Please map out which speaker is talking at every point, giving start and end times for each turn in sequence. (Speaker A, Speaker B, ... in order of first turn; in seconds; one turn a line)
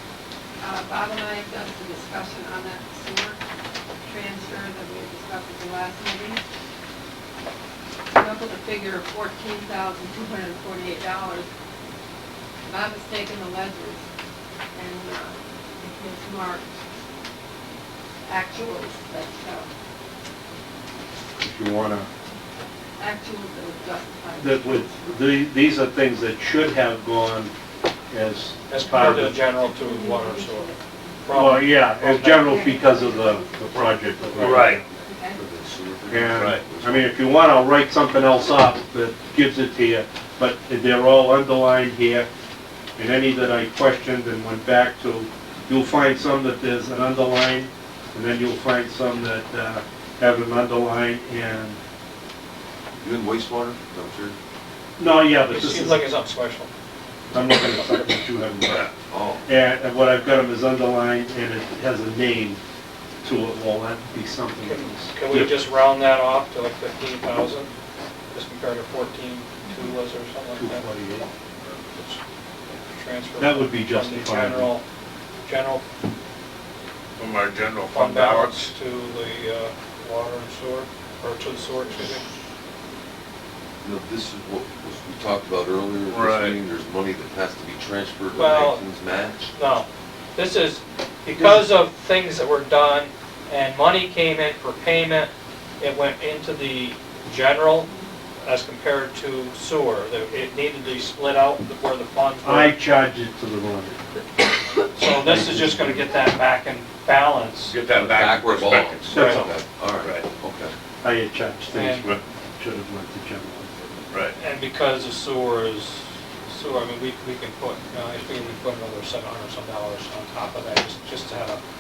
Speaker A: 0.6-3.4
Speaker A: 4.0-6.4
Speaker A: 8.1-11.5
Speaker A: 12.6-14.0
Speaker A: 14.7-16.7
Speaker A: 18.2-19.7
Speaker B: 21.4-22.1
Speaker A: 23.0-25.2
Speaker B: 24.4-27.5
Speaker B: 28.1-29.4
Speaker C: 28.7-32.6
Speaker A: 29.5-31.2
Speaker B: 31.3-34.9
Speaker A: 32.4-35.4
Speaker D: 34.4-34.8
Speaker E: 35.4-36.9
Speaker B: 36.1-42.3
Speaker D: 36.3-36.6
Speaker B: 43.0-51.8
Speaker E: 53.0-54.4
Speaker B: 55.0-56.0
Speaker C: 55.4-56.7
Speaker B: 57.3-58.9
Speaker E: 59.1-59.4
Speaker B: 59.5-62.6
Speaker B: 63.2-65.5
Speaker C: 64.6-67.7
Speaker C: 68.3-70.9
Speaker B: 70.6-71.3
Speaker C: 72.9-74.8
Speaker B: 73.4-74.7
Speaker C: 75.5-75.8
Speaker D: 77.2-78.7
Speaker C: 77.9-82.2
Speaker E: 83.8-89.4
Speaker D: 86.1-86.6
Speaker C: 88.3-88.8
Speaker C: 89.5-97.9
Speaker B: 91.4-91.7
Speaker C: 98.4-102.8
Speaker B: 102.4-104.0
Speaker C: 105.0-107.8
Speaker B: 105.1-106.1
Speaker D: 107.7-109.2
Speaker E: 108.0-110.7
Speaker B: 109.1-109.5
Speaker C: 109.1-109.5
Speaker B: 111.0-113.7
Speaker C: 111.7-112.1
Speaker C: 114.4-121.6